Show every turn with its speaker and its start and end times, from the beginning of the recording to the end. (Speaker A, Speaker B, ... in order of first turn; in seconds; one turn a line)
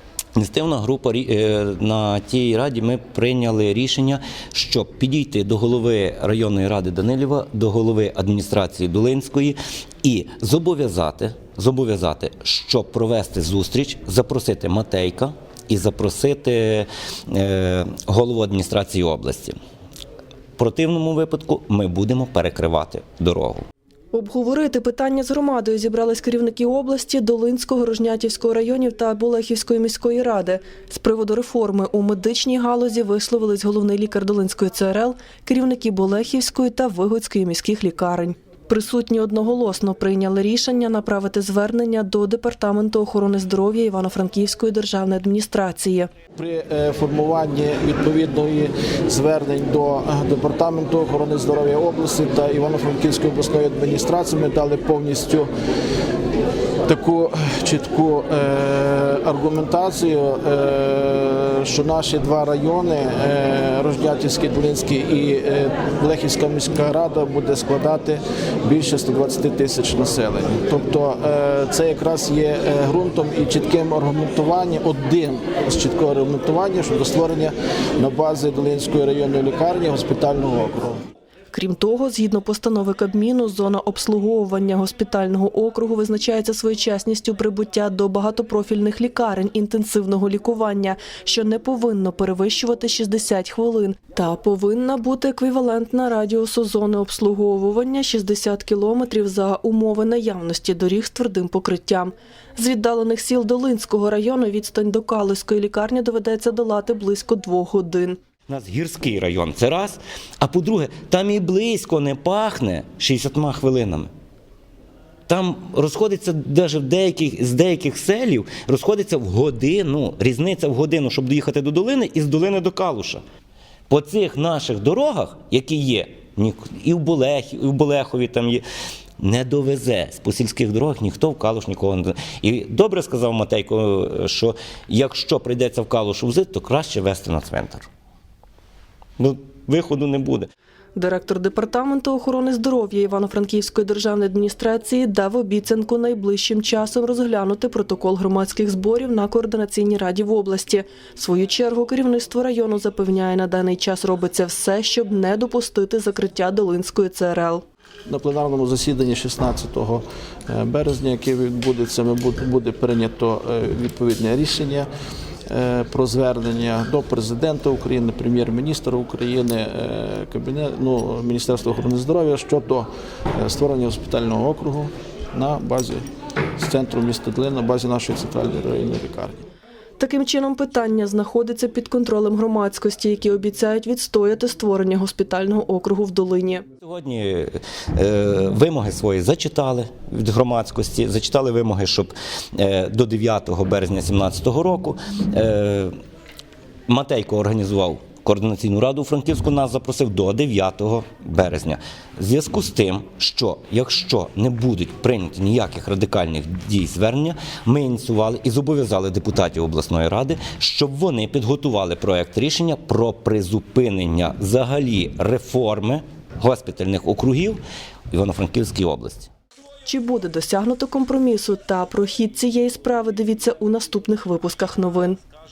Speaker A: 0.4-19.5
Speaker A: 20.6-23.6
Speaker B: 24.1-46.1
Speaker C: 46.4-55.5
Speaker C: 56.9-81.0
Speaker B: 81.5-108.2
Speaker A: 108.5-114.1
Speaker A: 115.3-123.2
Speaker A: 123.9-128.6
Speaker A: 129.2-137.9
Speaker A: 139.2-140.5
Speaker B: 141.0-157.6
Speaker C: 158.1-164.9
Speaker C: 165.5-176.0
Speaker C: 176.6-179.5
Speaker B: 180.0-186.7
Speaker A: 186.8-195.9
Speaker A: 196.9-217.6
Speaker A: 218.1-219.3
Speaker B: 219.8-225.2